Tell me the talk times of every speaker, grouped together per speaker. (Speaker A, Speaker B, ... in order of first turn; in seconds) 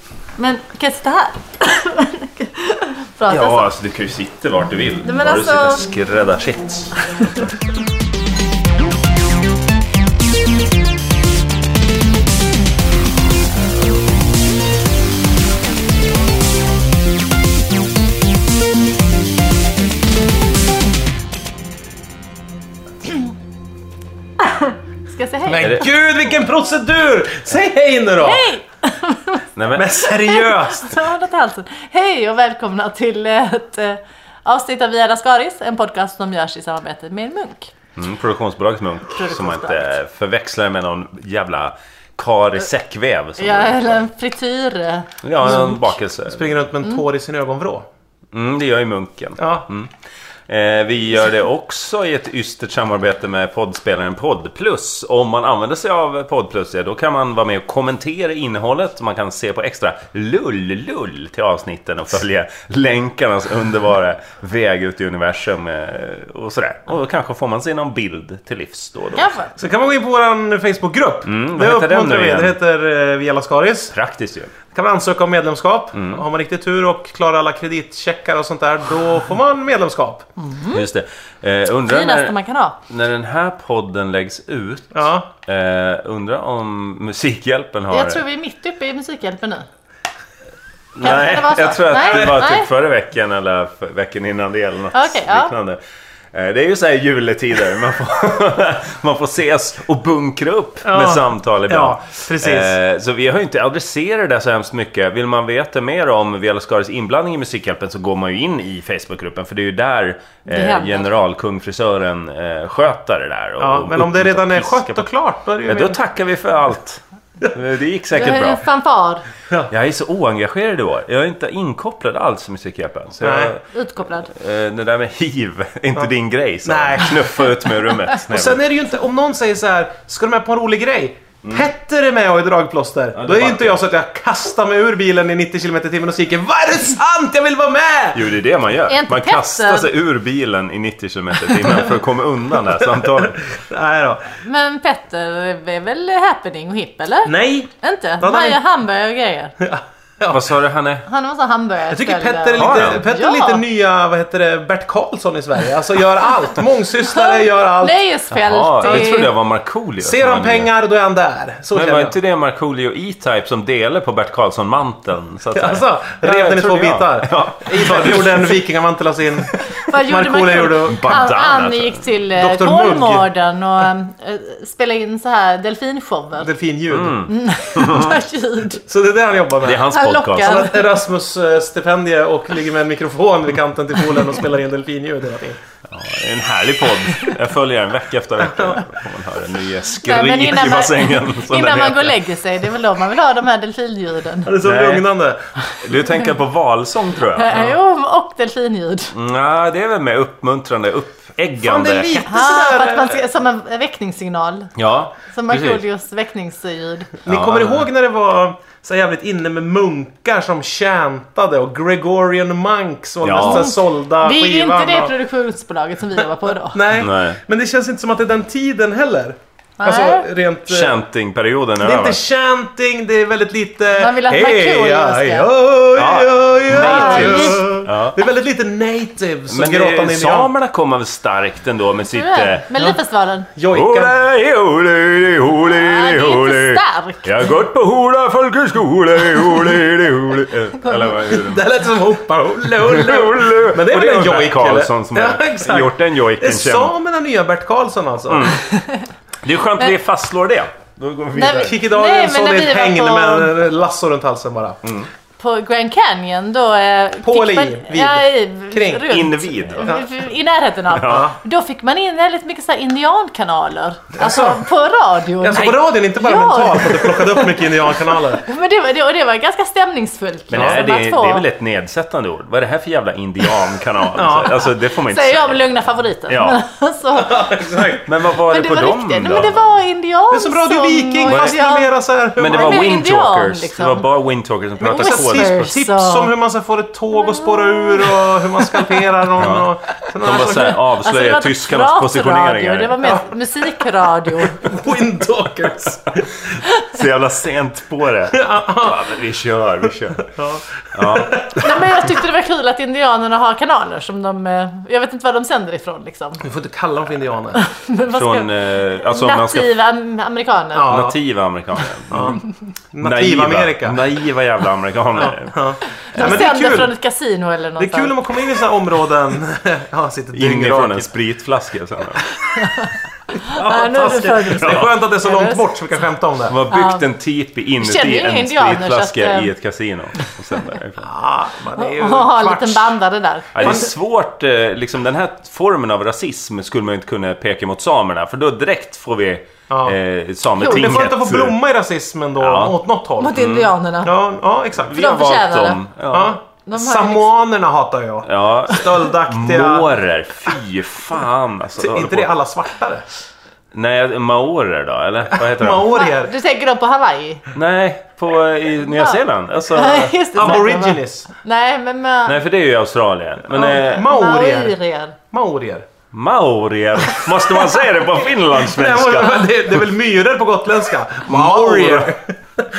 Speaker A: 0.4-3.7, 5.0-5.8, 7.2-7.5, 24.4-25.9, 28.2-29.4, 30.1-37.7, 39.1-39.9, 43.4-45.8, 69.1-69.5, 80.4-80.8, 81.8-82.8, 87.9-89.7, 91.0-92.7, 94.9-95.5, 110.5-111.1, 118.1-119.2, 123.7-124.3, 138.9-139.9, 144.4-149.5, 151.1-153.6, 157.1-159.3, 169.7-176.5, 177.3-178.8, 179.8-181.0, 190.0-194.5, 197.3-199.1, 202.2-204.7, 205.3-207.1, 213.4-216.8, 219.8-220.3, 223.9-225.5, 226.7-227.7, 232.1-233.5, 235.7-237.3, 248.7-249.1, 251.3-253.5, 255.4-267.5, 268.3-271.4, 275.0-277.9, 278.4-281.9, 282.4-284.1, 284.8-286.3, 287.2-289.1, 290.2-294.8, 301.6-306.4, 307.5-310.9, 316.1-318.1, 322.5-325.6, 326.7-327.1, 327.8-329.5, 331.8-333.8, 340.6-340.9, 343.2-344.1, 344.9-345.8, 346.6-347.3, 355.9-357.4, 358.9-359.2, 359.7-362.4, 364.0-365.1
Speaker B: 3.3-7.5, 25.6-25.9, 29.5-30.0, 38.0-43.9, 45.2-46.4, 48.3-49.9, 50.5-69.3, 71.2-72.6, 73.9-74.5, 75.9-76.2, 80.7-82.3, 82.9-88.2, 90.9-95.8, 96.3-115.1, 115.6-118.6, 119.7-123.6, 124.3-128.6, 131.4-131.7, 133.1-133.8, 138.1-143.4, 150.3-151.1, 152.6-153.0, 158.3-160.7, 161.7-168.6, 170.8-172.0, 176.9-178.2, 179.6-180.7, 185.9-192.2, 194.6-195.1, 195.7-197.8, 199.1-202.2, 204.8-205.8, 207.3-207.8, 213.2-213.7, 216.9-217.4, 220.7-222.2, 225.9-228.2, 229.5-232.7, 233.7-241.8, 242.7-246.9, 248.3-248.6, 249.4-251.8, 254.8-255.1, 259.1-259.9, 260.9-261.3, 270.5-275.7, 276.3-276.6, 278.1-279.6, 281.3-281.5, 282.4-285.7, 289.4-293.1, 296.7-300.3, 300.9-301.6, 308.1-309.7, 310.9-312.4, 313.0-315.6, 316.1-316.6, 320.3-322.2, 324.6-324.9, 326.5-331.1, 333.5-341.6, 342.4-342.8, 343.3-343.7, 344.8-346.4, 348.2-352.3, 353.7-355.9, 357.5-360.6, 362.2-364.1, 366.1-369.8, 371.2-372.1
Speaker C: 25.4-28.5, 29.7-31.0, 45.4-47.9, 49.4-49.6, 69.6-73.9, 74.7-80.3, 84.9-85.3, 100.8-102.7, 113.6-116.0, 123.2-123.5, 126.6-127.3, 128.3-138.3, 142.8-144.2, 147.2-148.6, 149.6-150.4, 151.9-158.0, 158.8-159.3, 160.0-162.1, 165.5-171.2, 172.3-173.3, 176.4-177.3, 178.8-185.6, 188.4-188.9, 194.4-195.4, 201.6-203.2, 207.2-215.1, 216.7-221.0, 221.8-230.5, 233.5-234.2, 241.1-248.6, 251.6-254.8, 257.2-259.1, 261.1-261.4, 264.2-264.6, 265.4-268.4, 274.1-274.6, 277.1-278.1, 280.3-282.9, 284.8-290.8, 293.0-293.8, 294.5-296.5, 298.3-299.1, 300.2-302.1, 306.4-307.6, 310.7-311.2, 312.1-312.4, 312.9-314.1, 315.2-316.9, 317.8-321.1, 323.4-326.6, 331.0-333.0, 333.6-333.9, 339.7-340.0, 340.5-343.4, 344.0-345.0, 346.1-349.9, 351.8-353.0, 355.3-356.3, 360.3-361.3, 363.5-364.8, 365.3-365.9, 367.4-367.7, 368.5-372.7